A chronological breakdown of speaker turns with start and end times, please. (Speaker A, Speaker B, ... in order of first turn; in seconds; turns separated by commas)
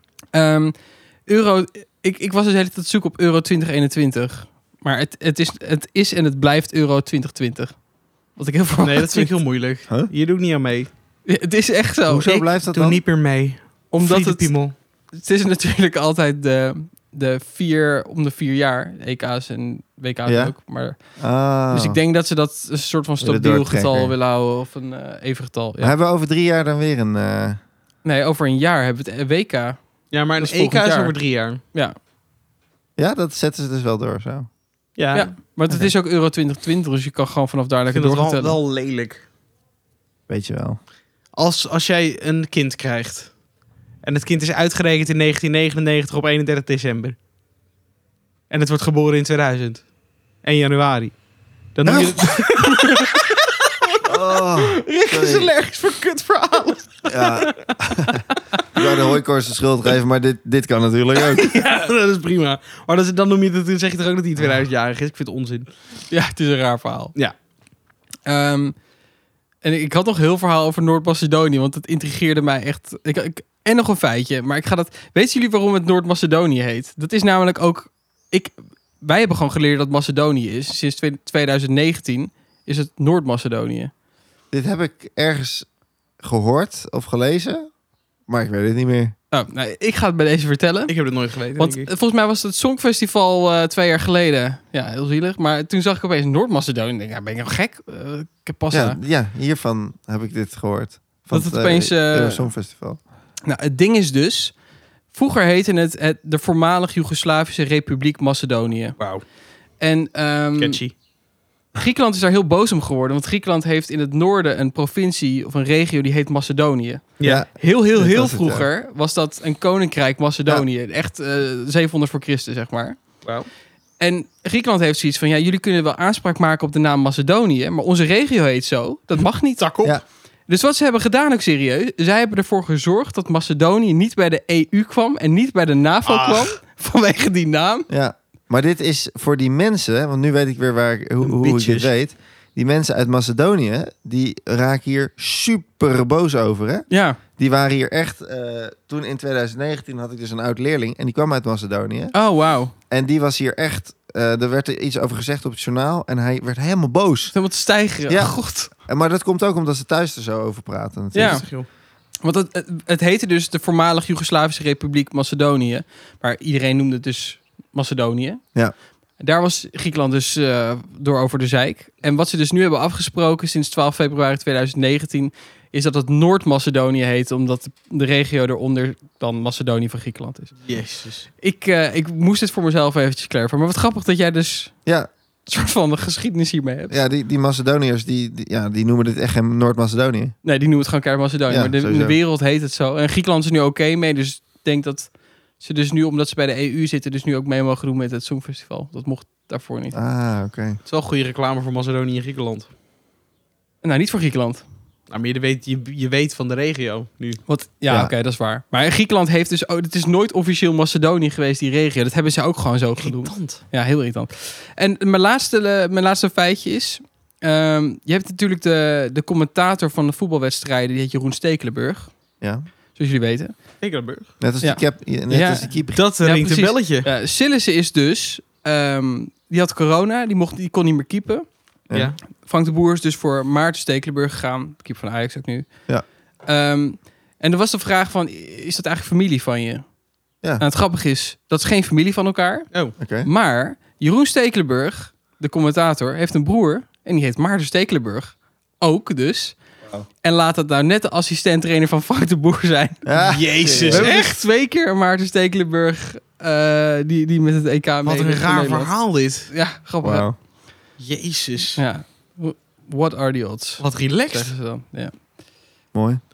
Speaker A: 0.3-7.8, Speaker A: 8.3-9.3, Speaker B: 8.8-10.9, Speaker A: 11.3-12.4, Speaker C: 12.1-13.0, Speaker B: 12.3-14.7, Speaker A: 13.9-21.2, Speaker C: 20.3-20.6, Speaker C: 21.2-22.0, Speaker A: 21.7-25.9, Speaker C: 23.2-24.1, Speaker C: 25.8-27.6, Speaker A: 28.0-29.8, Speaker B: 30.1-31.6, Speaker A: 30.4-31.2, Speaker C: 33.0-34.5, Speaker B: 35.0-35.4, Speaker A: 35.1-38.6, Speaker B: 37.9-39.2, Speaker C: 40.3-40.8, Speaker B: 41.3-43.4, Speaker B: 44.0-47.1, Speaker B: 48.5-49.9, Speaker B: 50.4-51.2, Speaker B: 51.8-57.7, Speaker C: 51.9-52.2, Speaker C: 54.0-55.5, Speaker C: 57.1-61.5, Speaker B: 61.4-65.7, Speaker A: 66.1-67.2, Speaker A: 68.3-68.8, Speaker A: 69.6-83.9, Speaker C: 84.5-85.7, Speaker C: 86.2-87.7, Speaker C: 88.3-89.2, Speaker A: 89.3-91.0, Speaker B: 90.9-91.9, Speaker A: 91.6-99.0, Speaker C: 98.7-103.0, Speaker A: 101.3-102.5, Speaker A: 103.5-104.5, Speaker A: 105.1-109.0, Speaker A: 109.8-110.8, Speaker B: 110.6-110.9, Speaker A: 111.8-123.0, Speaker B: 117.2-117.5, Speaker C: 117.2-118.7, Speaker A: 124.0-129.7, Speaker B: 129.6-130.0, Speaker A: 130.5-137.9, Speaker B: 136.1-136.5, Speaker C: 137.9-152.1, Speaker A: 141.2-141.9, Speaker A: 146.9-147.2, Speaker A: 152.1-152.7, Speaker C: 152.9-157.3, Speaker A: 157.3-158.7, Speaker C: 158.1-161.5, Speaker A: 161.1-161.5, Speaker B: 161.2-161.7, Speaker A: 162.2-168.4, Speaker A: 169.2-180.7, Speaker B: 180.7-181.3, Speaker A: 181.4-184.8, Speaker A: 185.4-187.0, Speaker C: 186.9-190.3, Speaker A: 190.4-200.0, Speaker C: 191.5-192.2, Speaker C: 199.9-200.8, Speaker B: 200.9-202.7, Speaker A: 203.8-204.7, Speaker B: 205.1-207.4, Speaker A: 207.5-222.1, Speaker B: 213.0-213.6, Speaker C: 222.4-222.7, Speaker A: 222.9-223.6, Speaker B: 223.8-224.3, Speaker C: 224.4-226.0, Speaker A: 224.6-231.5, Speaker B: 225.9-227.1, Speaker B: 231.9-232.2, Speaker A: 232.4-235.7, Speaker A: 236.5-239.9, Speaker A: 240.6-242.7, Speaker C: 243.0-243.3, Speaker A: 243.2-249.6, Speaker A: 250.2-253.1, Speaker C: 253.1-254.1, Speaker B: 253.2-254.4, Speaker A: 253.8-260.3, Speaker B: 258.1-259.5, Speaker C: 260.0-260.4, Speaker B: 261.0-261.8, Speaker A: 261.8-265.1, Speaker B: 263.8-264.5, Speaker C: 265.9-266.2